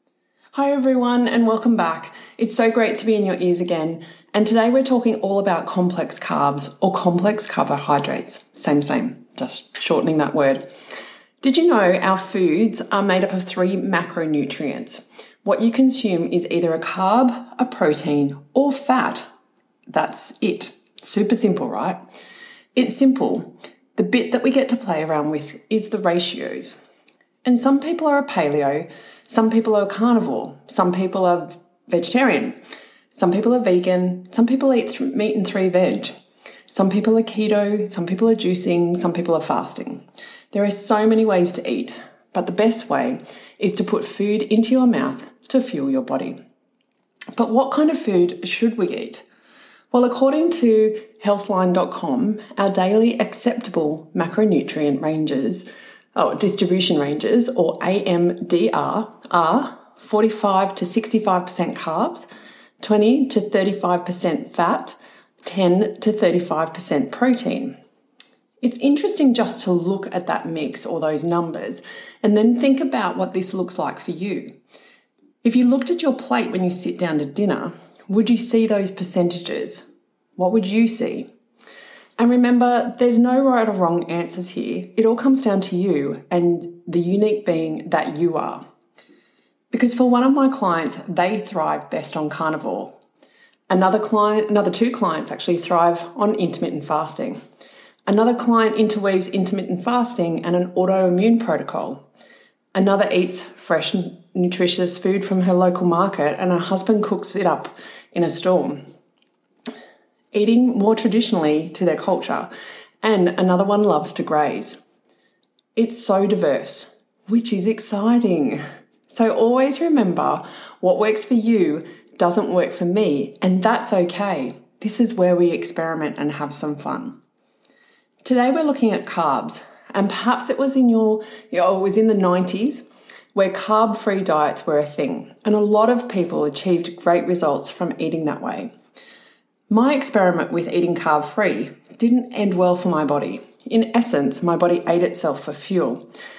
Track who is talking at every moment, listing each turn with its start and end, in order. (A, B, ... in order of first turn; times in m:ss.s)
0:00.6-0:10.6 A
0:11.4-0:19.3 A
0:19.9-0:22.0 A
0:22.8-0:26.8 A
0:27.4-0:32.6 A
0:33.2-0:36.1 A
0:36.7-0:46.4 A
0:47.4-0:49.2 A
0:49.9-1:02.3 A
1:02.8-1:07.7 A
1:08.6-1:14.5 A
1:15.4-1:19.8 A
1:20.4-1:21.3 A
1:22.2-1:28.6 A
1:29.7-1:32.9 A
1:33.7-1:37.4 A
1:38.1-1:42.0 A
1:42.7-1:48.8 A
1:50.3-1:52.5 A
1:53.0-1:54.8 A
1:55.8-2:07.2 A
2:08.2-2:18.7 A
2:19.7-2:26.1 A